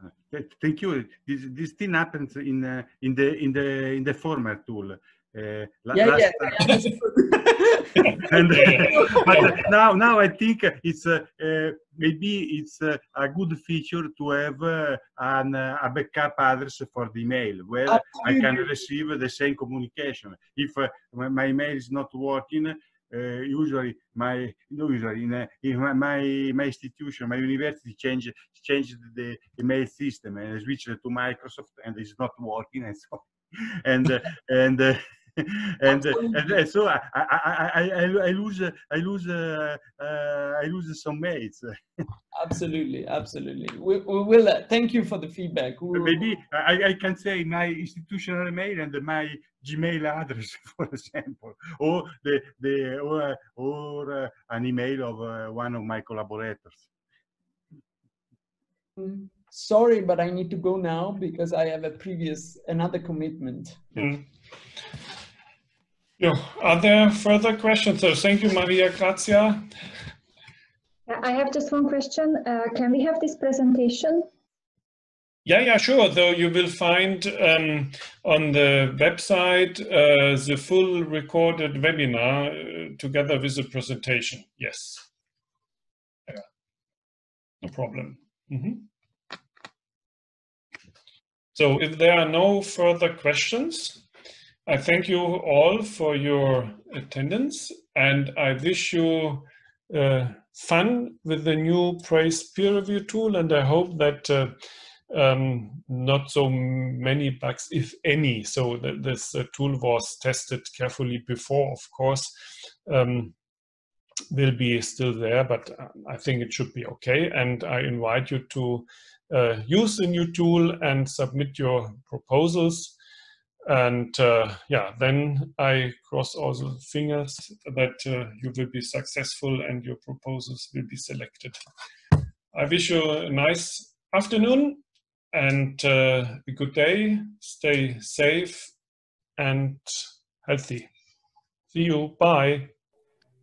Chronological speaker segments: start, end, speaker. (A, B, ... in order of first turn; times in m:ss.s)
0:00.3-0:06.9 A
0:05.9-0:09.5 B
0:08.0-0:41.7 A
0:08.0-0:09.5 C
0:17.9-0:18.6 B
0:35.9-0:36.4 B
0:42.4-0:46.2 B
0:45.9-0:56.8 A
0:59.0-1:03.9 B
1:04.0-1:04.3 C
1:06.2-1:09.7 C
1:11.1-1:14.3 D
1:15.4-1:25.1 C
1:27.6-1:28.9 C
1:31.5-1:34.0 C
1:34.7-1:44.6 C
1:45.1-1:52.3 C
1:52.9-1:53.4 C
1:54.3-2:03.0 C
2:03.7-2:11.6 C
2:12.5-2:14.8 C
2:15.3-2:18.7 C
2:19.4-2:20.9 C
2:21.7-2:22.7 C